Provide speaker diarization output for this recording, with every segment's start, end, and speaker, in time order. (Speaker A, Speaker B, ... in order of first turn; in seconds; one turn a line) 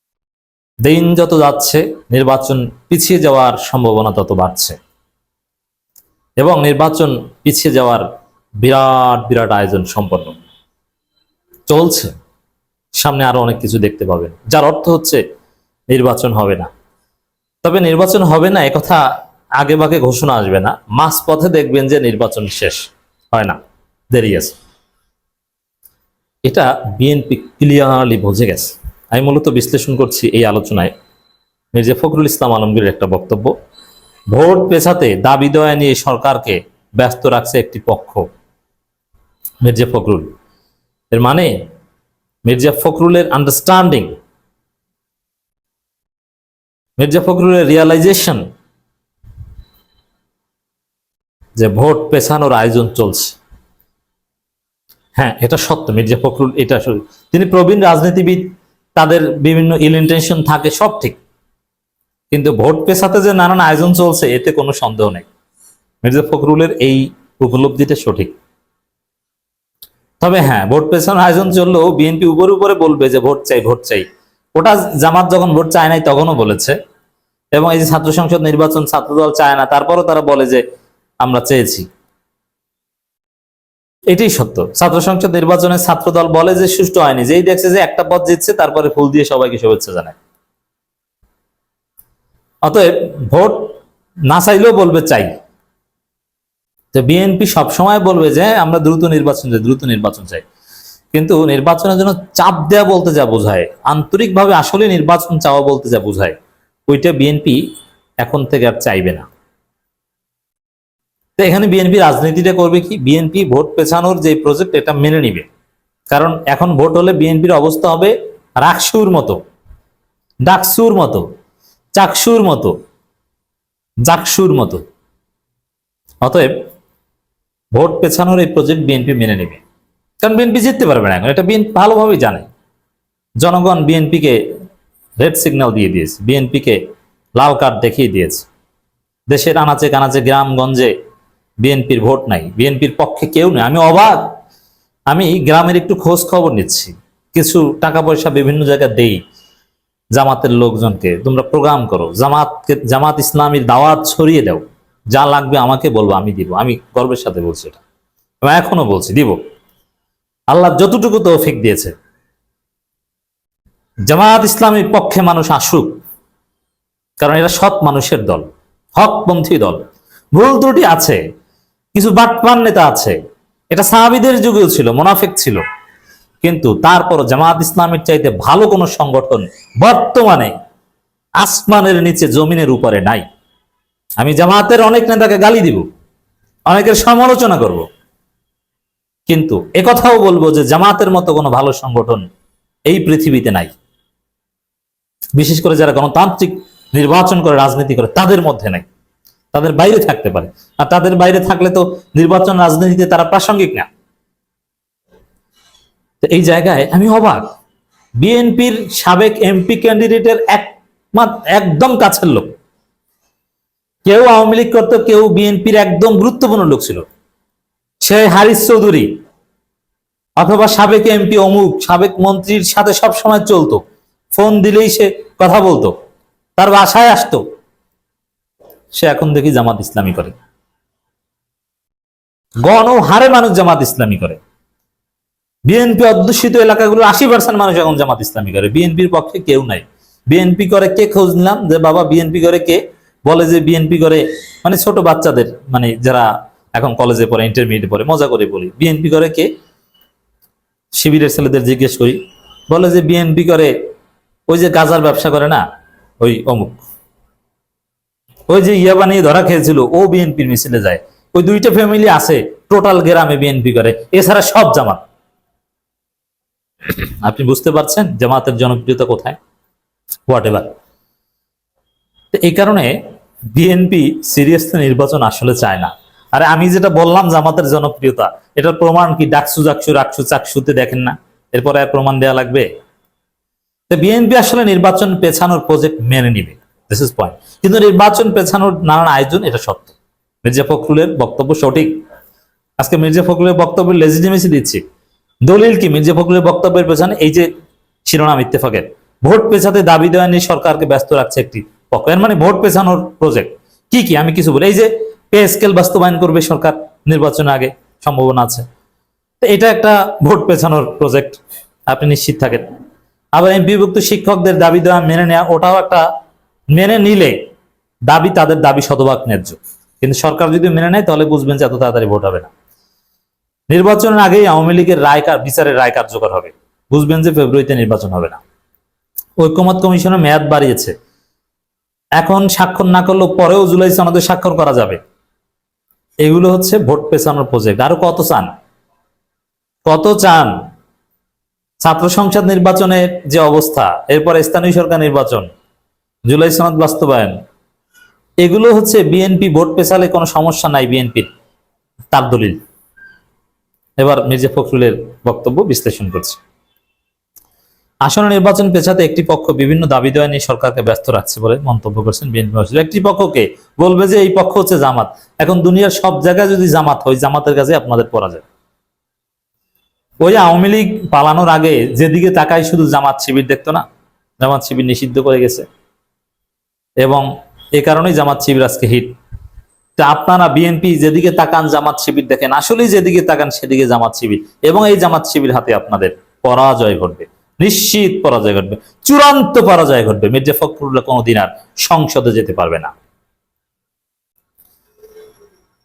Speaker A: 0.8-4.8
Speaker A: 6.4-8.1
Speaker A: 8.6-10.4
Speaker A: 11.7-12.1
Speaker A: 13.0-15.2
Speaker A: 15.9-16.7
Speaker A: 17.6-19.1
Speaker A: 19.6-23.6
Speaker A: 24.1-24.5
Speaker A: 26.5-30.9
Speaker A: 31.7-33.5
Speaker A: 34.3-38.2
Speaker A: 39.6-40.3
Speaker A: 41.1-41.5
Speaker A: 42.5-44.1
Speaker A: 47.0-48.5
Speaker A: 51.6-53.4
Speaker A: 55.2-58.5
Speaker A: 59.0-61.2
Speaker A: 62.3-65.3
Speaker A: 66.0-68.3
Speaker A: 70.2-76.8
Speaker A: 77.5-80.6
Speaker A: 81.2-81.9
Speaker A: 84.1-90.2
Speaker A: 92.6-93.7
Speaker A: 94.3-95.3
Speaker A: 96.9-100.4
Speaker A: 101.1-106.4
Speaker A: 106.9-107.6
Speaker A: 108.2-109.3
Speaker A: 111.4-115.5
Speaker A: 116.1-119.4
Speaker A: 120.5-121.2
Speaker A: 122.0-122.8
Speaker A: 124.1-124.8
Speaker A: 126.2-126.5
Speaker A: 127.7-129.6
Speaker A: 130.2-132.5
Speaker A: 133.4-134.4
Speaker A: 135.2-136.8
Speaker A: 137.4-138.5
Speaker A: 139.3-140.9
Speaker A: 141.6-144.2
Speaker A: 145.1-149.2
Speaker A: 150.2-157.8
Speaker A: 158.4-159.4
Speaker A: 160.5-161.9
Speaker A: 164.1-165.9
Speaker A: 167.2-169.8
Speaker A: 170.3-171.2
Speaker A: 171.9-173.2
Speaker A: 173.7-175.6
Speaker A: 176.4-180.5
Speaker A: 181.4-183.2
Speaker A: 184.2-185.8
Speaker A: 186.7-187.9
Speaker A: 189.3-192.3
Speaker A: 192.9-193.7
Speaker A: 195.4-198.8
Speaker A: 199.5-203.9
Speaker A: 206.2-207.4
Speaker A: 208.2-212.5
Speaker A: 214.1-217.1
Speaker A: 218.0-219.1
Speaker A: 220.4-223.8
Speaker A: 224.3-225.9
Speaker A: 226.6-227.4
Speaker A: 228.9-230.4
Speaker A: 232.6-234.4
Speaker A: 235.7-249.5
Speaker A: 250.9-253.7
Speaker A: 254.5-255.6
Speaker A: 256.2-256.8
Speaker A: 258.5-265.0
Speaker A: 267.0-269.4
Speaker A: 270.3-270.7
Speaker A: 272.3-272.9
Speaker A: 273.5-282.7
Speaker A: 283.9-291.9
Speaker A: 292.8-294.8
Speaker A: 295.4-297.5
Speaker A: 298.1-308.6
Speaker A: 309.4-312.6
Speaker A: 313.4-316.0
Speaker A: 316.7-317.4
Speaker A: 318.1-322.5
Speaker A: 323.7-328.4
Speaker A: 329.4-330.9
Speaker A: 332.2-335.0
Speaker A: 336.2-338.5
Speaker A: 339.9-340.5
Speaker A: 341.8-345.5
Speaker A: 346.3-347.4
Speaker A: 348.4-351.3
Speaker A: 352.1-352.6
Speaker A: 354.0-356.4
Speaker A: 358.1-368.4
Speaker A: 370.2-373.9
Speaker A: 374.4-375.7
Speaker A: 377.0-379.1
Speaker A: 380.0-392.9